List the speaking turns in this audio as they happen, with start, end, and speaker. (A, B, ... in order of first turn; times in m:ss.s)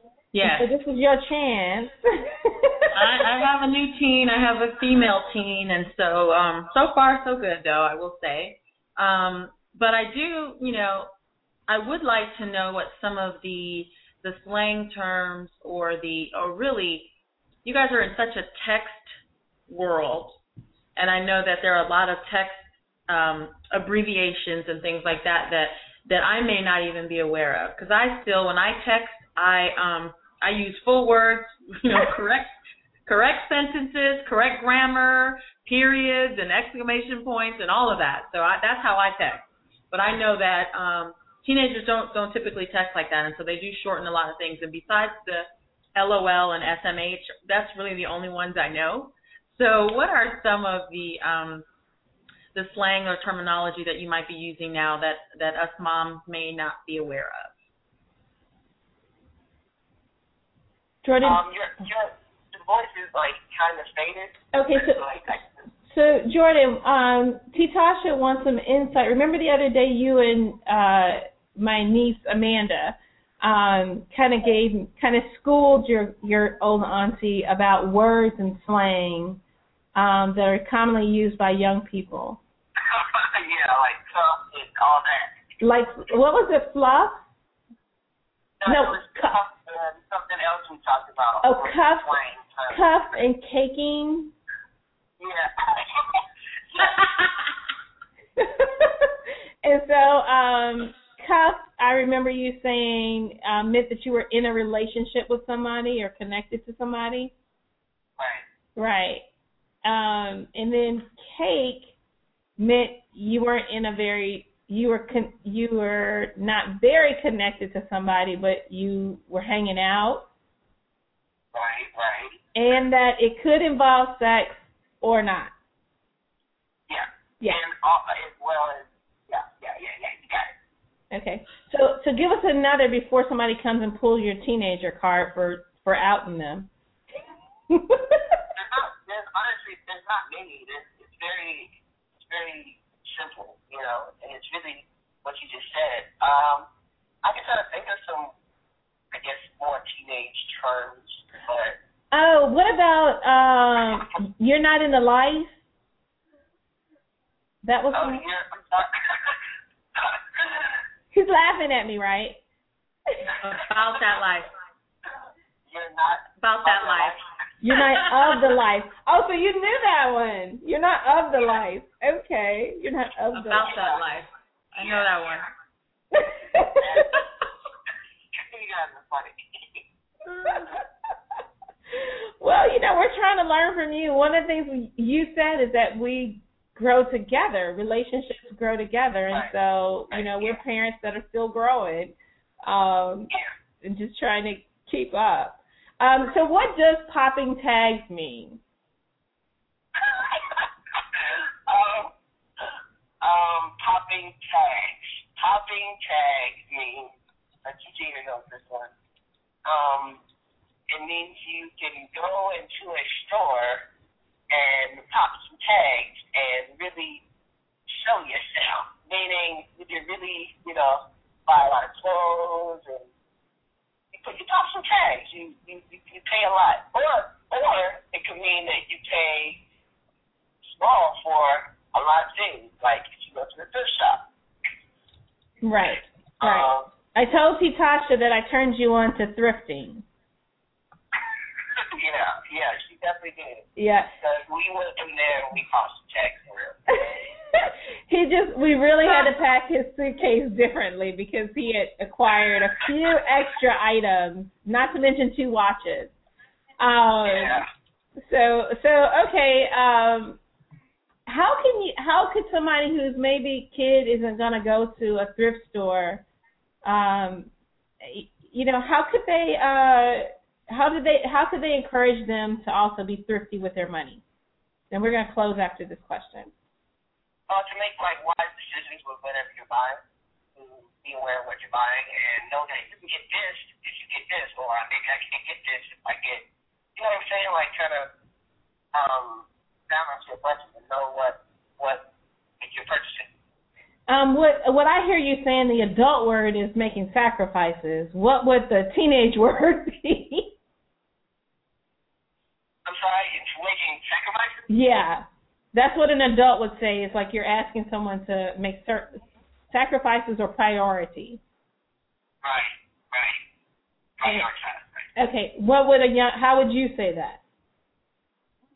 0:00.3-0:00.7 A
0:00.4-0:02.9 B
0:02.9-0:11.1 A
0:11.7-0:17.1 A
0:17.6-0:19.1 A
0:19.7-0:20.4 A
0:21.0-0:32.5 A
0:33.1-0:51.6 A
0:52.5-0:57.5 A
1:01.0-1:01.4 B
1:01.2-1:05.5 C
1:04.5-1:19.4 B
1:20.0-1:22.4 B
1:22.8-1:25.3 C
1:25.6-1:27.2 B
1:28.6-1:32.8 C
1:28.6-1:29.3 B
1:31.4-1:32.2 B
1:32.7-1:34.3 B
1:35.2-1:37.1 C
1:38.4-1:39.1 B
1:39.6-1:47.3 B
1:48.2-1:48.4 C
1:48.8-1:49.2 B
1:49.8-1:51.9 B
1:52.6-2:00.2 B
2:01.5-2:02.4 C
2:02.5-2:05.5 B
2:06.9-2:10.5 C
2:11.1-2:16.7 B
2:17.7-2:18.2 B
2:18.5-2:26.7 C
2:27.2-2:28.3 C
2:29.1-2:31.8 C
2:32.1-2:35.5 B
2:37.6-2:38.2 B
2:37.9-2:39.4 C
2:40.0-2:40.8 C
2:41.1-2:42.4 B
2:43.4-2:44.5 A
2:45.7-2:47.2 C
2:46.4-2:47.2 A
2:47.6-2:53.8 B
2:53.3-2:55.5 A
2:53.6-2:54.0 C
2:56.1-2:57.2 B
2:56.8-2:57.2 C
2:58.3-2:59.8 C
3:00.5-3:00.8 B
3:01.9-3:13.3 B
3:10.1-3:10.6 C
3:13.8-3:18.6 B
3:20.0-3:28.9 C
3:29.6-3:30.2 C
3:30.9-3:33.8 C
3:34.5-3:37.2 C
3:37.9-3:43.1 C
3:44.1-3:49.6 C
3:50.6-3:54.2 C
3:55.6-4:00.0 B
3:56.4-3:56.9 C
4:01.8-4:06.8 C
4:03.8-4:04.1 B
4:06.9-4:16.1 B
4:16.8-4:17.6 B
4:17.2-4:17.6 C
4:18.2-4:20.4 B
4:21.2-4:26.2 B
4:26.8-4:27.5 B
4:28.0-4:34.2 B
4:34.9-4:36.5 B
4:37.5-4:40.0 C
4:40.5-4:46.4 C
4:47.0-4:48.1 C
4:48.9-4:52.0 C
4:52.6-4:53.3 C
4:54.1-5:00.5 B
5:02.8-5:04.6 C
5:04.7-5:11.4 B
5:12.4-5:13.4 C
5:14.2-5:15.0 C
5:15.2-5:17.4 B